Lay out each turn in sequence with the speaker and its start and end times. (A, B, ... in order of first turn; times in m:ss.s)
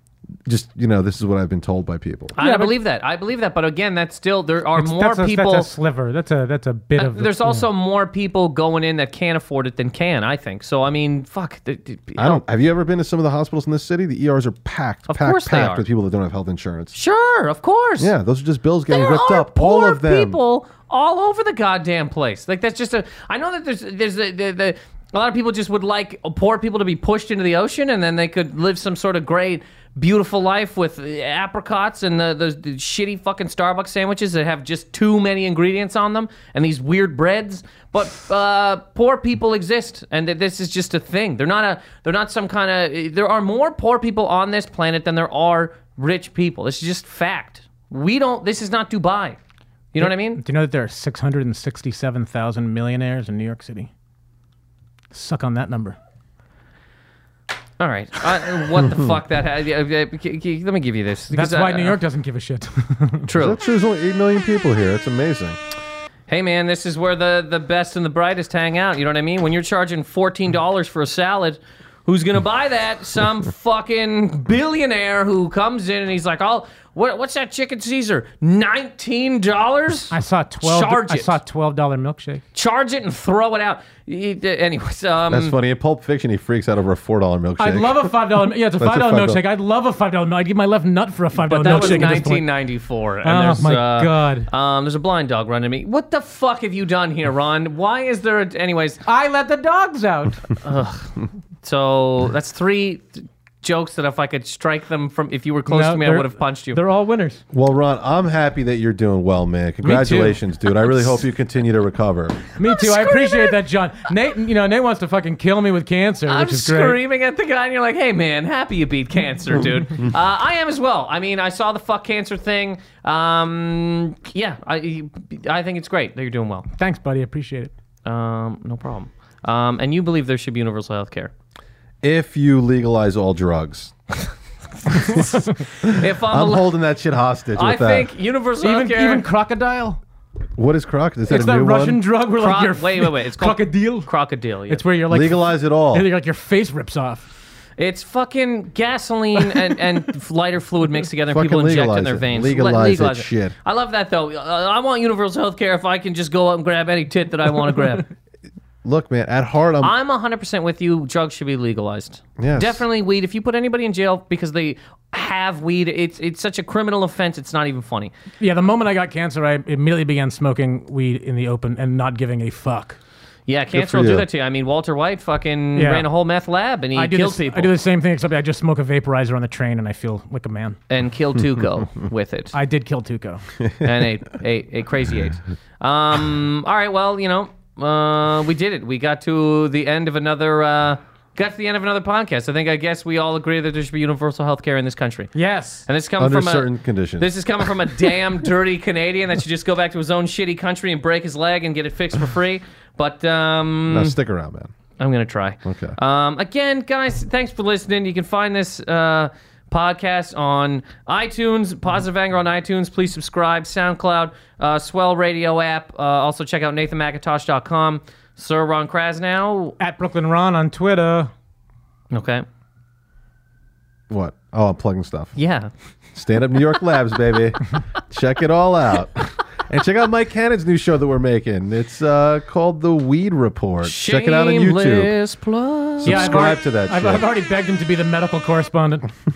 0:00.4-0:02.4 A
0:02.4-0:05.7 B
0:02.4-0:02.7 C
0:04.7-0:07.6 C
0:07.0-0:12.4 B
0:12.2-0:16.9 A
0:15.1-0:15.8 B
0:16.9-0:18.1 B
0:18.0-0:20.4 A
0:18.9-0:49.4 B
0:49.9-0:50.4 B
0:50.0-0:53.9 C
0:55.1-0:56.0 C
0:57.8-1:02.0 B
1:01.3-1:03.3 C
1:03.3-1:03.6 B
1:03.4-1:05.6 A
1:06.3-1:21.3 B
1:20.1-1:22.4 C
1:22.5-1:25.5 B
1:25.3-1:28.0 A
1:27.6-1:32.4 C
1:28.8-1:29.4 A
1:31.5-1:39.0 B
1:33.2-1:34.5 C
1:39.0-1:40.4 C
1:40.6-1:41.1 B
1:41.6-1:46.8 B
1:45.7-1:47.4 C
1:47.5-1:52.4 A
1:49.8-1:50.9 C
1:52.6-1:57.0 C
1:52.6-1:53.6 B
1:56.3-2:06.7 B
2:06.8-2:07.7 C
2:08.0-2:11.3 B
2:12.0-2:13.9 A
2:15.0-2:16.8 B
2:15.2-2:15.5 C
2:15.8-2:18.1 A
2:17.5-2:19.2 B
2:18.6-2:20.0 C
2:20.6-2:22.0 A
2:21.3-2:24.1 C
2:22.4-2:24.8 B
2:24.7-2:27.3 C
2:25.1-2:26.0 A
2:27.8-2:38.1 B
2:31.3-2:33.5 A
2:38.8-2:39.9 A
2:39.8-2:48.1 B
2:42.4-2:42.8 A
2:48.4-2:53.0 C
2:53.5-2:57.7 B
2:53.7-2:54.3 A
2:55.8-2:56.1 C
2:56.9-3:00.8 C
3:00.9-3:02.5 B
3:02.5-3:03.4 C
3:03.8-3:15.3 B
3:15.3-3:15.8 C
3:15.8-3:24.1 B
3:16.2-3:17.3 A
3:23.9-3:24.7 A
3:25.0-3:39.8 B
3:25.6-3:26.0 A
3:39.8-3:41.3 C
3:42.1-3:42.4 B
3:44.1-3:45.3 A
3:45.4-3:45.7 B
3:46.1-3:55.1 A
3:53.8-3:56.3 B
3:56.0-3:57.2 A
3:56.0-3:59.1 C